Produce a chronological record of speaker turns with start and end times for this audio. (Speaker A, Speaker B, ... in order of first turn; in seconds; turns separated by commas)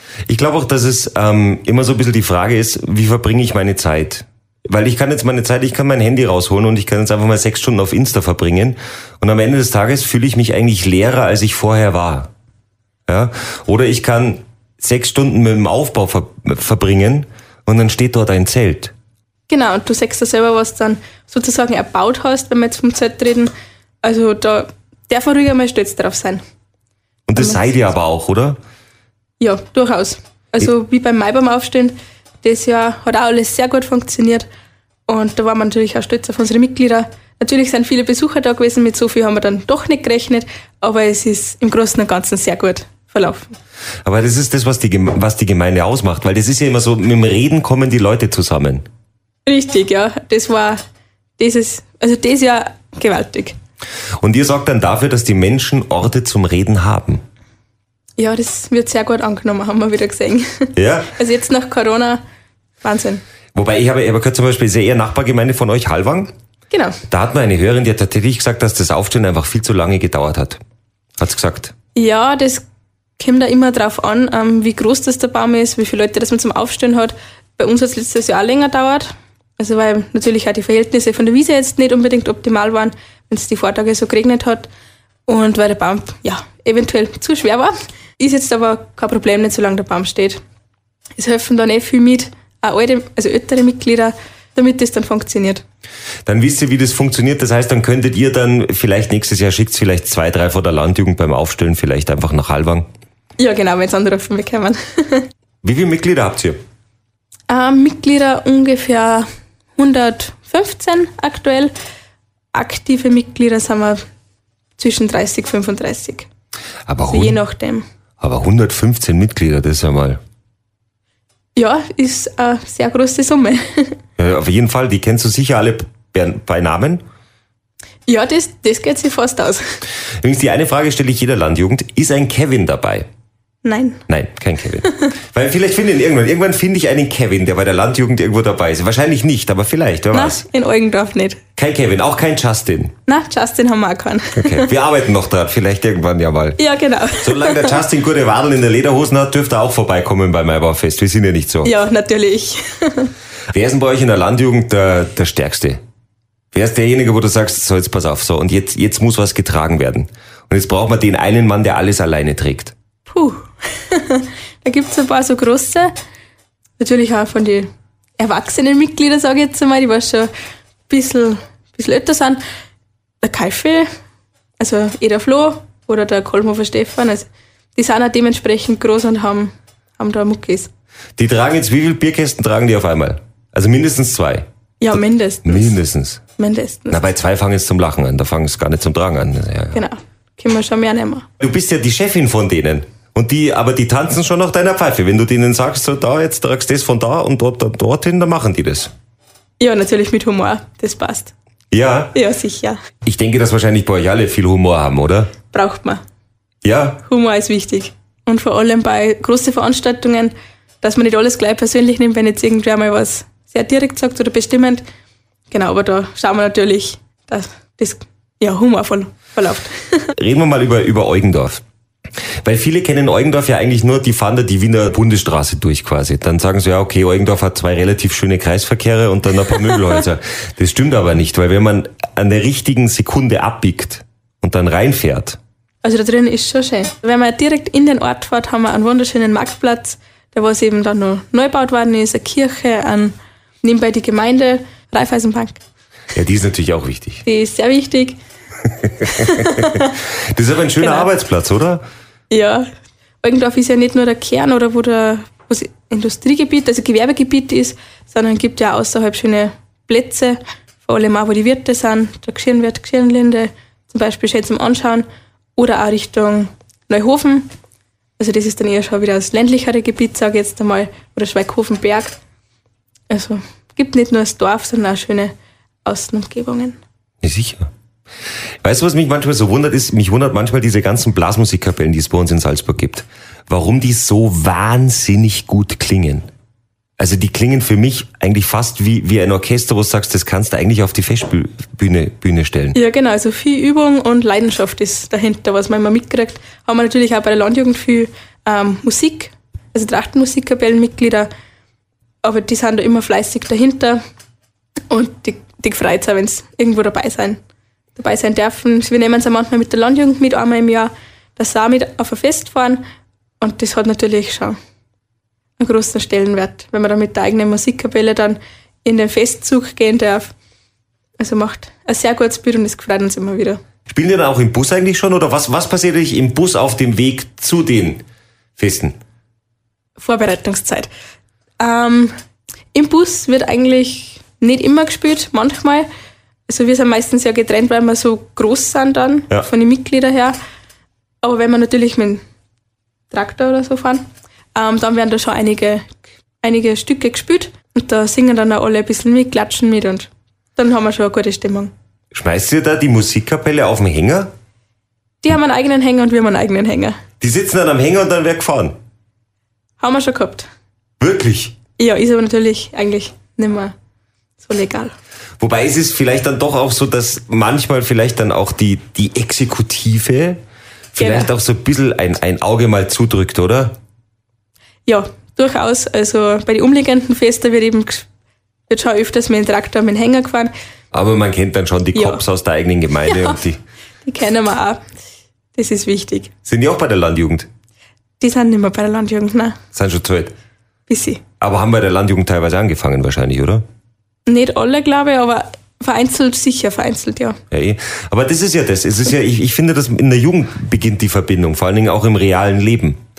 Speaker A: 0.3-12.3, Speaker A: 13.1-18.9, Speaker B: 19.5-23.5, Speaker B: 24.0-26.4, Speaker A: 27.3-28.6, Speaker B: 27.4-27.8, Speaker B: 29.4-34.5, Speaker B: 35.1-43.6, Speaker A: 44.0-48.8, Speaker B: 49.5-50.8, Speaker B: 51.4-53.5, Speaker A: 54.2-57.2, Speaker B: 58.2-62.2, Speaker A: 60.8-61.1, Speaker B: 62.8-63.2, Speaker A: 63.5-66.3, Speaker B: 66.7-67.0, Speaker A: 67.1-70.6, Speaker A: 71.2-71.7, Speaker B: 72.0-72.6, Speaker B: 73.2-84.7, Speaker B: 85.3-90.4, Speaker B: 91.2-95.6, Speaker A: 96.2-102.9, Speaker B: 103.4-105.3, Speaker A: 105.6-106.6, Speaker B: 107.5-109.2, Speaker B: 109.8-111.7, Speaker B: 112.5-114.0, Speaker B: 114.8-116.3, Speaker A: 116.9-117.4, Speaker B: 117.0-117.8, Speaker A: 118.2-120.2, Speaker B: 121.5-124.0, Speaker A: 124.2-127.0, Speaker B: 128.1-129.6, Speaker A: 130.2-133.1, Speaker B: 133.6-134.0, Speaker A: 134.1-140.4, Speaker B: 140.1-141.4, Speaker A: 141.6-142.9, Speaker B: 143.1-144.7, Speaker A: 144.4-146.6, Speaker B: 146.6-147.8, Speaker A: 147.2-151.7, Speaker B: 151.6-153.1, Speaker A: 153.5-155.8, Speaker A: 156.5-162.7, Speaker B: 163.1-165.9, Speaker B: 166.8-170.3, Speaker B: 170.9-172.4, Speaker B: 173.2-173.9, Speaker B: 174.6-180.7, Speaker A: 181.2-184.4, Speaker B: 184.8-185.8, Speaker A: 185.4-186.2, Speaker B: 186.4-187.0, Speaker A: 186.9-189.8, Speaker B: 189.7-191.3, Speaker A: 191.4-198.9, Speaker B: 199.6-201.3, Speaker A: 201.7-202.1, Speaker B: 202.1-202.8, Speaker A: 203.0-205.3, Speaker B: 205.5-206.0, Speaker A: 206.6-207.0, Speaker B: 207.0-214.8, Speaker B: 215.5-220.1, Speaker A: 220.2-221.6, Speaker A: 222.4-235.4, Speaker B: 235.8-245.6, Speaker A: 246.1-247.2, Speaker B: 247.2-248.2, Speaker B: 249.0-249.9, Speaker A: 249.2-249.7, Speaker A: 250.3-251.8, Speaker B: 250.8-251.1, Speaker B: 252.3-252.7, Speaker B: 253.2-267.5, Speaker B: 268.2-272.2, Speaker B: 273.1-276.8, Speaker A: 277.2-277.7, Speaker A: 278.6-286.2, Speaker A: 287.0-292.8, Speaker B: 292.7-301.3, Speaker B: 302.2-304.0, Speaker B: 304.9-307.4, Speaker B: 307.9-312.8, Speaker B: 313.4-314.6, Speaker B: 315.6-320.3, Speaker B: 321.2-323.6, Speaker A: 323.9-328.0, Speaker A: 328.6-328.9, Speaker B: 330.0-330.9, Speaker B: 331.6-332.1, Speaker B: 332.7-335.9, Speaker B: 336.5-340.4, Speaker B: 341.2-342.2, Speaker B: 343.1-345.9, Speaker B: 346.4-351.7, Speaker A: 352.1-354.3, Speaker B: 355.2-357.0, Speaker A: 357.2-358.7, Speaker B: 359.8-360.5, Speaker A: 361.0-361.5, Speaker B: 361.8-363.7, Speaker B: 364.4-364.9, Speaker A: 365.4-370.4, Speaker A: 370.9-373.8, Speaker B: 371.0-371.3, Speaker B: 374.9-378.1, Speaker B: 378.7-380.5, Speaker A: 380.9-383.6, Speaker B: 381.9-382.2, Speaker B: 383.0-383.4, Speaker B: 384.0-384.8, Speaker B: 385.5-386.3, Speaker A: 386.4-387.5, Speaker B: 388.2-389.6, Speaker A: 389.7-390.3, Speaker B: 390.9-391.2, Speaker A: 391.4-393.6, Speaker B: 394.2-397.4, Speaker A: 397.5-403.0